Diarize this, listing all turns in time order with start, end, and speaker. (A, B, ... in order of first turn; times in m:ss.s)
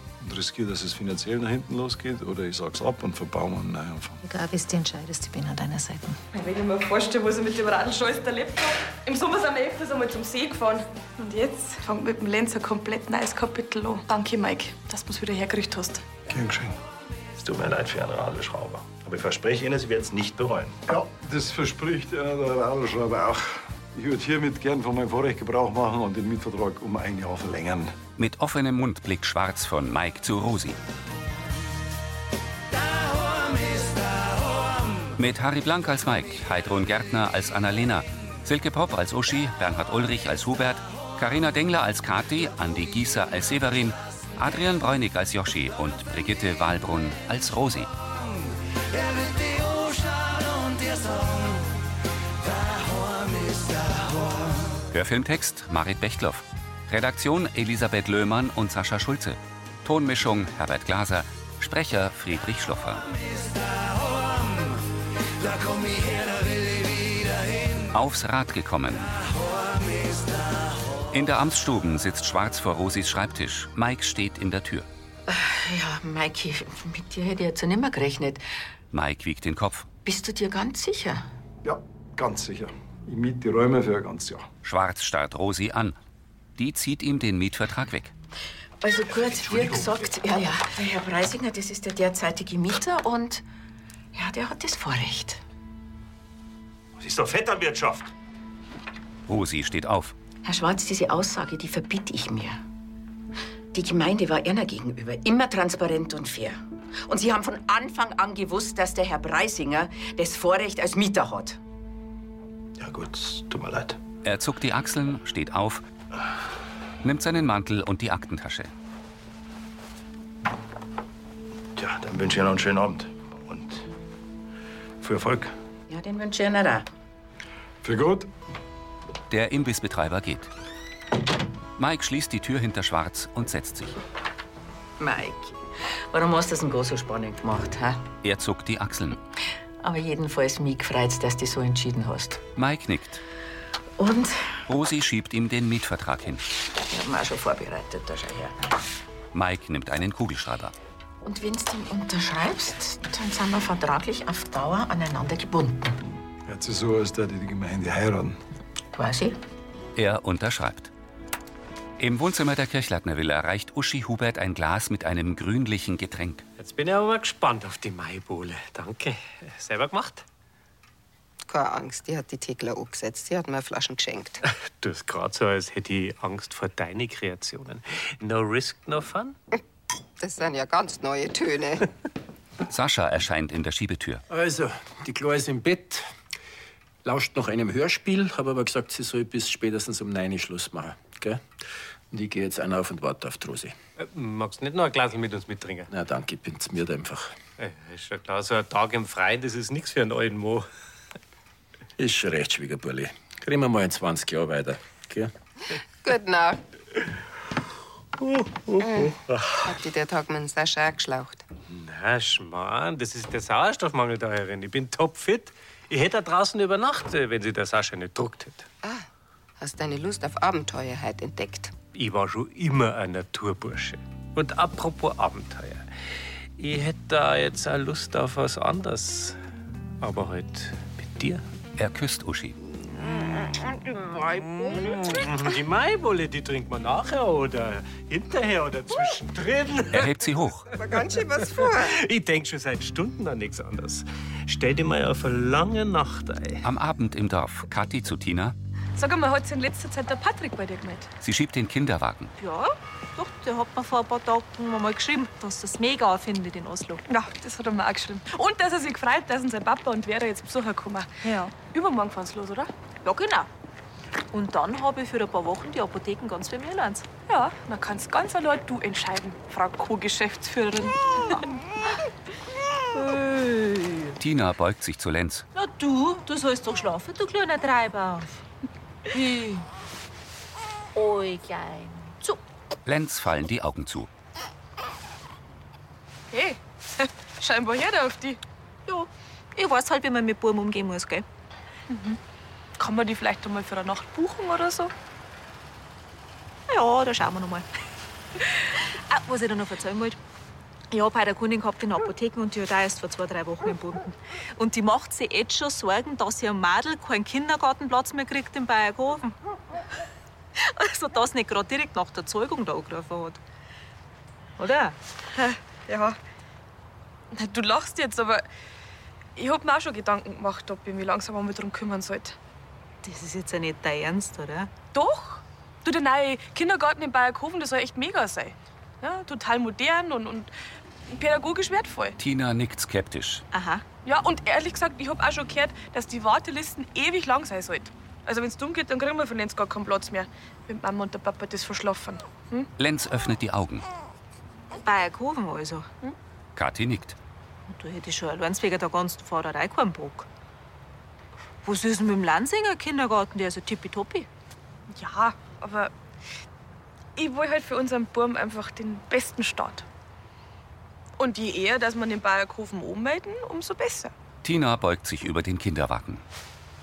0:00.2-0:04.2 A
0:04.2-0:06.2 B
0:06.3-0:16.0 C
0:16.3-0:16.8 A
0:17.4-0:20.8 D
0:20.9-0:28.0 A
0:28.2-0:30.8 E
0:35.2-0:47.9 E
0:54.9-1:03.1 E
1:07.9-1:09.2 E
1:11.1-1:14.9 E
1:15.3-1:18.4 F
1:18.9-1:19.9 E
1:20.0-1:21.3 F
1:21.6-1:24.5 A
1:24.6-1:26.0 E
1:26.6-1:28.1 E
1:28.8-1:33.4 F
1:34.1-1:35.4 F
1:37.0-1:38.1 D
1:39.3-1:40.2 E
1:40.4-1:42.6 F
1:43.7-1:51.6 F
1:52.8-1:54.0 D
1:54.2-1:55.8 E
1:57.0-1:58.7 E
2:01.8-2:03.9 D
2:05.0-2:05.6 D
2:05.9-2:06.9 F
2:07.8-2:08.3 A
2:09.3-2:10.5 E
2:11.8-2:14.0 E
2:15.0-2:18.0 F
2:18.2-2:19.2 E
2:19.8-2:22.4 F
2:22.6-2:23.2 E
2:24.0-2:24.6 F
2:24.7-2:26.4 E
2:26.8-2:28.6 F
2:29.3-2:30.7 E
2:31.2-2:36.0 F
2:36.4-2:38.4 A
2:38.9-2:39.4 F
2:40.0-2:40.9 E
2:42.0-2:46.4 E
2:46.6-2:50.2 G
2:51.4-2:54.4 H
2:54.8-2:59.4 G
3:00.2-3:01.9 H
3:02.7-3:04.2 E
3:04.3-3:06.0 I
3:07.0-3:11.4 I
3:12.1-3:13.7 I
3:14.0-3:15.9 G
3:15.9-3:17.4 I
3:17.6-3:20.7 G
3:22.0-3:25.3 I
3:26.0-3:26.6 H
3:28.8-3:31.4 H
3:31.7-3:38.6 G
3:39.6-3:41.7 H
3:42.0-3:45.9 G
3:46.6-3:49.4 G
3:50.0-3:51.4 G
3:51.8-3:52.6 E
3:54.4-4:00.1 G
3:59.9-4:00.7 E
4:00.8-4:02.0 H
4:01.6-4:06.6 G
4:06.6-4:08.6 E
4:09.0-4:11.1 C
4:11.2-4:12.3 E
4:12.4-4:17.0 J
4:17.1-4:22.7 C
4:23.0-4:23.5 J
4:24.3-4:27.1 J
4:27.3-4:31.2 C
4:32.9-4:34.1 J
4:34.2-4:35.5 E
4:35.6-4:38.4 J
4:39.1-4:39.6 J
4:41.0-4:42.4 J
4:42.9-4:44.1 E
4:46.3-4:48.4 C
4:48.9-4:51.2 J
4:51.9-4:52.2 C
4:52.8-4:54.9 C
4:56.7-4:57.7 J
4:59.1-5:00.2 J
5:00.9-5:09.3 J
5:10.6-5:13.4 J
5:14.6-5:15.0 J
5:15.4-5:16.2 C
5:17.3-5:18.5 C
5:19.4-5:22.4 C
5:23.0-5:24.7 J
5:24.9-5:30.5 C
5:31.1-5:32.2 C
5:32.2-5:33.4 E
5:33.5-5:33.8 J
5:34.0-5:42.7 C
5:42.8-5:43.8 E
5:44.8-5:46.1 J
5:46.6-5:47.2 E
5:47.7-5:50.3 J
5:51.6-5:54.3 J
5:54.9-5:55.9 C
5:57.2-5:59.8 C
6:01.2-6:04.1 C
6:04.4-6:06.2 E